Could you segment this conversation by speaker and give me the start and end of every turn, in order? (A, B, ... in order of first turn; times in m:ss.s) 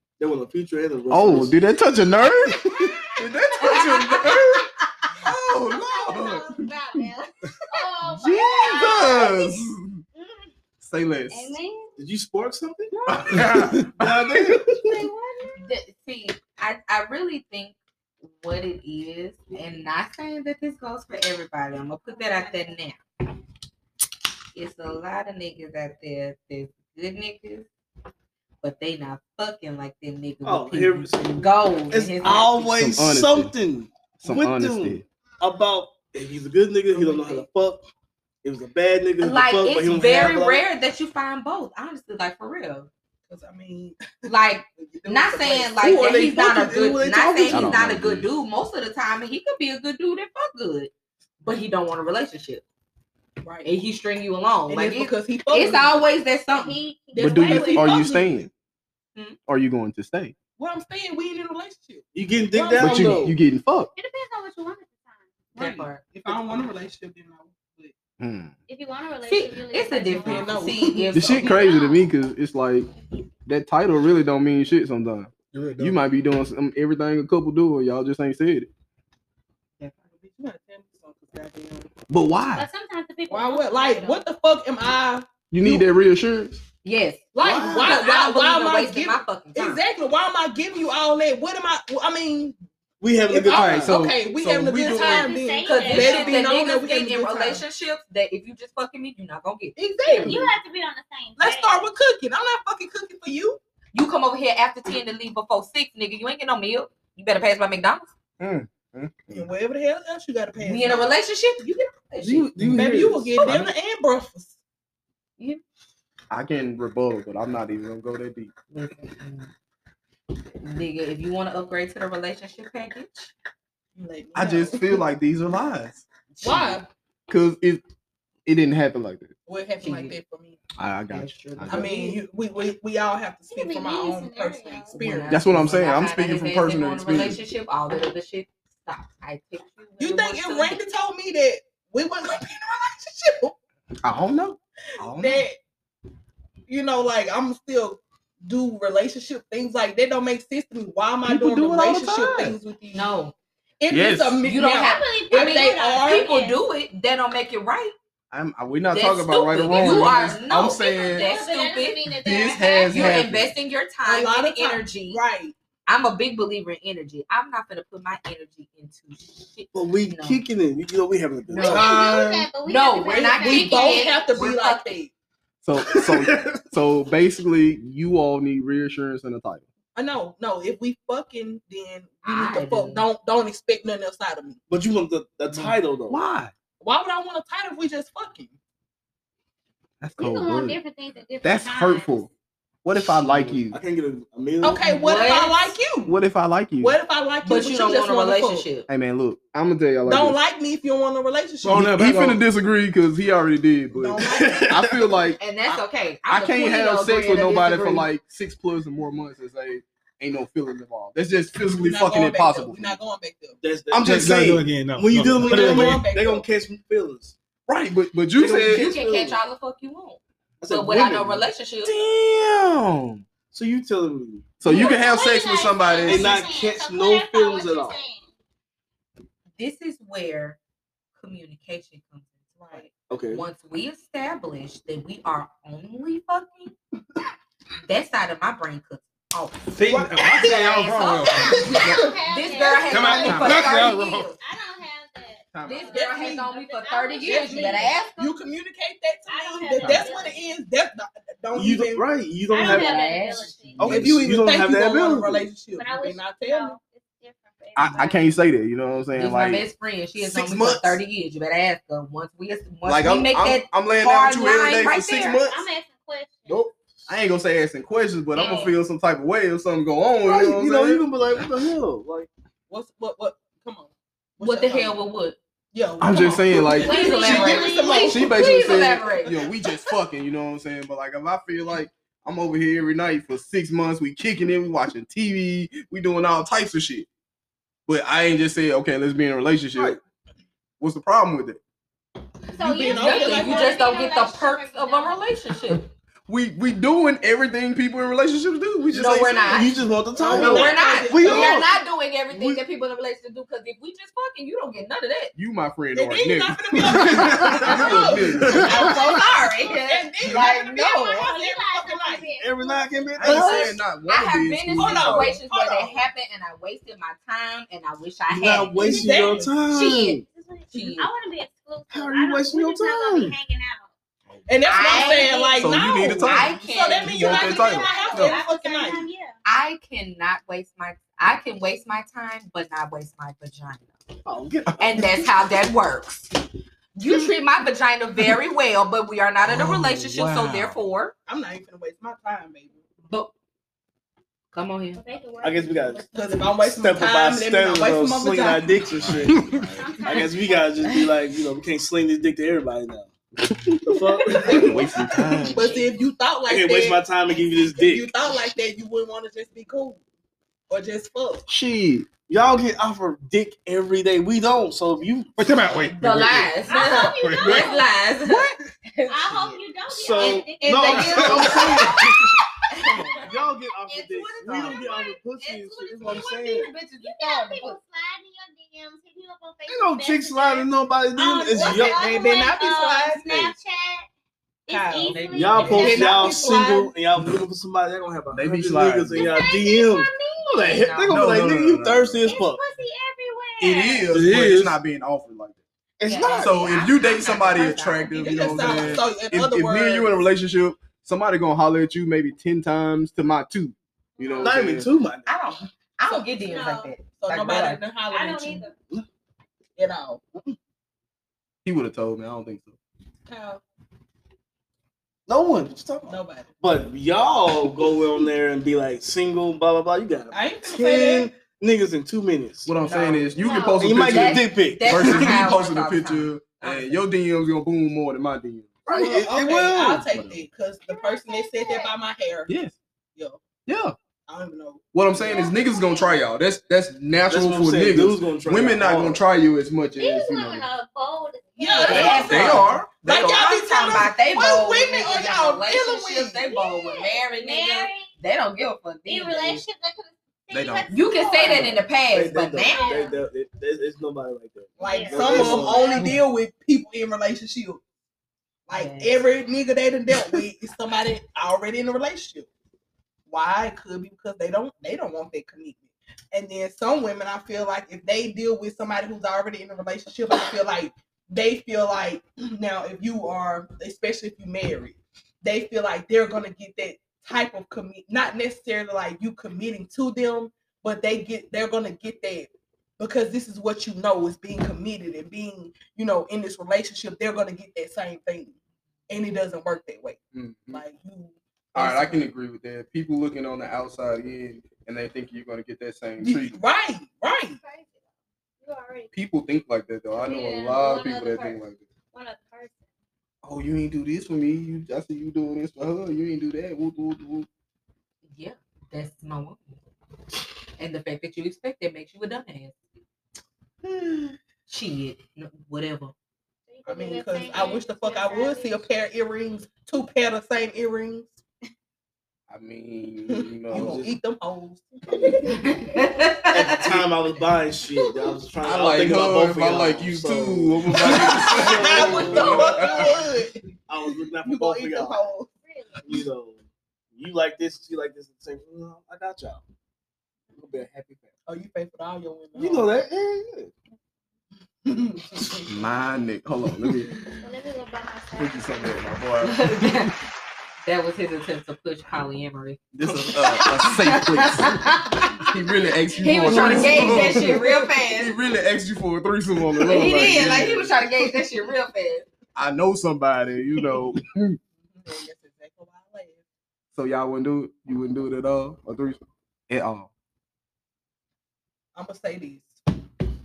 0:00.2-0:01.6 A
0:01.1-0:07.1 B
0:02.5-0:10.5 C
0:08.0-0:10.0 B
0:10.8-0:11.6 B
0:11.3-0:12.0 C
0:12.0-0:13.0 A
0:12.9-0:13.4 C
0:13.1-0:14.9 B
0:13.4-0:13.9 D
0:13.9-0:15.0 A
0:14.8-0:15.6 C
0:15.6-0:23.0 E
0:22.0-0:22.8 C
0:24.5-0:27.7 E
0:28.6-0:32.6 E
0:30.4-0:37.9 A
0:32.7-0:33.5 B
0:34.2-0:35.0 B
0:37.0-0:37.4 E
0:37.0-0:37.3 F
0:38.4-0:40.6 A
0:39.2-0:42.9 E
0:43.3-0:47.7 F
0:44.3-0:50.9 E
0:47.5-0:48.3 B
0:51.4-0:52.6 E
0:53.4-0:53.7 F
0:53.6-0:56.8 E
0:54.7-0:56.1 F
0:56.5-0:58.0 C
0:57.1-0:58.5 F
0:57.2-0:58.5 B
0:59.5-1:00.3 B
1:00.6-1:03.3 F
1:02.1-1:03.4 A
1:02.8-1:03.9 B
1:04.0-1:05.8 C
1:05.6-1:06.0 E
1:05.6-1:07.9 F
1:08.2-1:08.5 B
1:08.7-1:10.8 C
1:09.3-1:11.7 E
1:10.2-1:11.4 F
1:11.1-1:12.9 B
1:11.4-1:12.1 C
1:13.5-1:18.7 B
1:15.5-1:16.0 D
1:19.8-1:21.9 F
1:22.1-1:22.6 B
1:22.5-1:24.2 C
1:23.3-1:25.8 F
1:25.5-1:26.6 B
1:26.8-1:29.8 E
1:27.3-1:32.6 F
1:27.4-1:28.0 B
1:33.0-1:33.9 A
1:33.3-1:37.6 F
1:33.6-1:35.3 B
1:34.8-1:36.5 C
1:35.6-1:40.4 E
1:39.8-1:40.5 F
1:40.2-1:41.9 C
1:41.4-1:43.6 F
1:43.9-1:48.1 E
1:48.4-1:49.5 B
1:49.3-1:51.1 F
1:50.6-1:52.5 E
1:52.2-1:53.3 A
1:52.6-1:52.9 D
1:52.7-1:54.6 F
1:53.4-1:53.7 B
1:56.3-1:58.5 B
1:58.7-1:59.5 E
2:00.6-2:03.3 E
2:04.0-2:05.0 F
2:04.3-2:06.0 B
2:06.3-2:06.8 E
2:06.4-2:06.9 F
2:07.3-2:07.8 B
2:08.4-2:09.3 B
2:09.4-2:10.6 F
2:09.8-2:10.2 E
2:10.8-2:11.9 B
2:11.1-2:12.2 E
2:11.7-2:15.3 F
2:13.5-2:15.0 C
2:14.9-2:20.8 E
2:15.3-2:17.4 B
2:20.0-2:23.5 F
2:24.0-2:25.4 B
2:25.1-2:25.6 F
2:26.7-2:33.1 F
2:31.2-2:32.6 B
2:32.9-2:33.3 E
2:33.8-2:36.3 F
2:33.9-2:34.4 B
2:34.4-2:37.9 E
2:34.7-2:36.6 C
2:38.3-2:41.3 B
2:38.9-2:42.0 E
2:39.8-2:43.2 C
2:42.1-2:43.5 B
2:42.9-2:45.2 E
2:44.0-2:45.5 F
2:45.9-2:50.4 E
2:49.7-2:52.4 A
2:51.5-2:55.0 E
2:51.6-2:54.2 C
2:51.7-2:52.2 F
2:53.0-2:55.1 F
2:55.6-2:59.6 B
2:55.9-2:56.6 A
2:59.9-3:04.6 F
3:02.2-3:03.1 E
3:04.7-3:06.2 A
3:06.1-3:06.5 B
3:06.8-3:08.5 F
3:10.0-3:10.8 B
3:10.2-3:12.3 C
3:11.4-3:12.3 B
3:12.8-3:13.8 B
3:13.0-3:14.9 A
3:14.6-3:16.2 F
3:14.8-3:15.8 E
3:16.0-3:17.0 B
3:16.8-3:18.6 F
3:17.4-3:18.9 E
3:18.9-3:20.4 B
3:20.0-3:21.9 F
3:21.6-3:22.4 A
3:21.9-3:33.0 B
3:23.9-3:24.7 F
3:24.2-3:25.1 A
3:25.4-3:28.1 E
3:31.7-3:33.6 F
3:33.6-3:37.4 A
3:33.9-3:34.6 B
3:34.0-3:36.0 D
3:35.2-3:36.4 F
3:37.7-3:38.9 B
3:38.3-3:39.4 A
3:38.7-3:41.9 E
3:40.6-3:41.5 A
3:41.8-3:43.2 B
3:43.5-3:44.8 A
3:44.6-3:46.4 B
3:44.6-3:48.3 C
3:46.0-3:48.0 A
3:49.6-3:50.6 E
3:51.2-3:56.7 E
3:52.6-3:52.9 F
3:53.1-3:53.4 A
3:57.8-3:59.6 E
3:59.7-4:02.1 D
3:59.8-4:01.6 F
4:00.8-4:04.4 E
4:01.7-4:08.3 C
4:02.7-4:04.3 D
4:05.5-4:06.0 B
4:05.6-4:08.2 E
4:06.0-4:06.5 F
4:07.2-4:12.1 F
4:09.3-4:10.5 C
4:09.8-4:10.1 B
4:11.5-4:13.0 A
4:12.5-4:13.9 C
4:12.5-4:13.5 E
4:13.8-4:14.2 B
4:13.8-4:15.5 A
4:13.8-4:16.8 F
4:15.8-4:18.3 C
4:17.8-4:19.6 B
4:19.2-4:25.4 E
4:20.2-4:21.0 B
4:22.8-4:25.7 B
4:25.2-4:26.7 C
4:27.1-4:31.0 B
4:28.4-4:28.7 C
4:28.4-4:28.7 E
4:30.2-4:32.3 A
4:32.7-4:35.0 F
4:34.4-4:35.4 E
4:35.7-4:39.0 F
4:36.0-4:37.4 B
4:36.5-4:38.3 C
4:36.7-4:39.4 E
4:38.0-4:47.1 B
4:47.9-4:50.0 B
4:50.8-4:51.6 B
4:52.5-4:55.7 C
4:52.5-4:54.0 F
4:52.9-4:55.9 E
4:56.3-4:59.6 B
4:58.9-5:05.3 E
4:59.5-5:01.8 A
5:00.2-5:01.8 F
5:02.3-5:02.6 A
5:05.3-5:08.7 B
5:05.9-5:12.3 F
5:07.3-5:11.3 E
5:07.6-5:08.8 A
5:10.4-5:13.2 C
5:12.4-5:13.8 A
5:13.2-5:15.3 B
5:13.2-5:19.1 E
5:14.8-5:16.0 F
5:18.3-5:20.2 A
5:18.7-5:19.5 F
5:18.8-5:19.3 C
5:19.6-5:20.2 E
5:20.2-5:23.9 C
5:20.7-5:21.1 E
5:21.9-5:23.3 A
5:24.5-5:29.1 F
5:24.6-5:27.5 E
5:24.9-5:25.4 C
5:25.6-5:28.4 B
5:27.2-5:29.4 C
5:29.4-5:33.9 E
5:34.2-5:35.3 A
5:34.8-5:36.3 E
5:37.0-5:41.1 E
5:39.5-5:40.8 B
5:41.3-5:42.8 F
5:44.5-5:45.0 E
5:44.9-5:46.4 C
5:45.4-5:46.1 A
5:46.1-5:48.7 F
5:46.6-5:49.5 A
5:48.8-5:50.0 B
5:49.7-5:51.0 C
5:50.0-5:53.1 A
5:53.8-5:54.9 A
5:54.4-5:54.8 F
5:54.5-5:55.8 B
5:55.5-6:00.0 F
5:56.4-5:58.1 A
6:00.7-6:01.4 F
6:01.5-6:02.1 B
6:02.3-6:05.4 A
6:05.4-6:07.6 D
6:05.9-6:09.6 E
6:06.7-6:07.8 C
6:09.1-6:11.9 C
6:09.9-6:12.0 A
6:10.2-6:12.0 E
6:11.0-6:11.5 D
6:11.0-6:11.6 F
6:12.7-6:13.2 E
6:13.2-6:16.7 A
6:13.9-6:17.8 E
6:14.6-6:15.2 C
6:16.2-6:24.1 C
6:19.7-6:22.2 A
6:21.5-6:23.2 F
6:23.2-6:23.5 A
6:24.6-6:26.7 C
6:24.7-6:26.9 F
6:25.0-6:26.6 E
6:25.3-6:32.6 A
6:28.3-6:29.4 B
6:29.2-6:30.9 C
6:30.6-6:31.2 E
6:31.1-6:32.2 B
6:32.2-6:34.1 C
6:33.6-6:35.6 B
6:34.1-6:34.7 A
6:34.2-6:34.6 D
6:36.0-6:36.6 A
6:36.0-6:39.0 E
6:36.4-6:44.9 B
6:38.2-6:40.2 F
6:44.2-6:44.6 C
6:44.4-6:45.4 A
6:45.2-6:47.8 E
6:46.4-6:46.9 C
6:47.2-6:48.7 F
6:48.1-6:48.7 C
6:49.8-6:50.2 F
6:51.6-6:52.7 B
6:53.3-6:53.6 F
6:55.3-7:02.7 A
6:56.1-6:56.5 F
7:00.3-7:01.3 F
7:02.6-7:09.0 B
7:02.8-7:07.0 E
7:03.4-7:03.8 C
7:03.8-7:05.4 A
7:08.9-7:10.1 A
7:08.9-7:12.5 F
7:10.1-7:10.4 B
7:10.9-7:11.9 C
7:12.5-7:12.7 B
7:13.7-7:13.9 B
7:14.3-7:14.9 F
7:14.9-7:20.6 B
7:15.2-7:16.2 C
7:17.3-7:19.2 A
7:20.0-7:22.7 C
7:21.6-7:26.5 F
7:21.8-7:29.6 E
7:21.8-7:23.5 B
7:26.5-7:28.1 C
7:29.1-7:31.8 C
7:30.5-7:30.9 B
7:30.9-7:32.9 E
7:31.4-7:36.1 A
7:32.6-7:33.2 C
7:34.8-7:37.8 F
7:34.8-7:36.1 C
7:38.7-7:42.5 F
7:38.7-7:39.2 E
7:43.3-8:08.5 F
8:09.1-8:12.2 F
8:10.3-8:10.8 B
8:11.7-8:16.6 B
8:16.2-8:17.6 F
8:17.6-8:18.0 C
8:18.6-8:19.1 C
8:19.1-8:21.8 B
8:20.2-8:22.8 C
8:23.4-8:27.5 B
8:28.3-8:29.7 E
8:30.8-8:32.8 E
8:34.7-8:36.1 E
8:36.7-8:38.8 C
8:36.9-8:41.3 F
8:42.5-8:44.0 B
8:43.3-8:45.6 F
8:43.7-8:44.1 A
8:45.1-8:45.4 A
8:45.6-8:46.9 E
8:46.5-8:52.8 A
8:48.6-8:53.1 B
8:51.1-8:53.7 F
8:52.4-8:52.7 C
8:53.9-8:55.2 A
8:54.4-8:55.5 F
8:55.6-8:56.0 C
8:56.0-8:56.6 A
8:57.1-8:59.6 A
9:00.5-9:01.3 A
9:01.5-9:02.9 F
9:02.5-9:03.7 A
9:04.8-9:05.7 F
9:05.6-9:07.1 B
9:07.4-9:09.0 C
9:08.4-9:09.8 B
9:09.4-9:10.2 E
9:10.8-9:15.4 E
9:12.9-9:21.0 B
9:16.2-9:18.3 E
9:19.8-9:22.2 E
9:22.6-9:24.6 B
9:24.9-9:26.4 F
9:26.9-9:30.1 B
9:31.9-9:32.8 F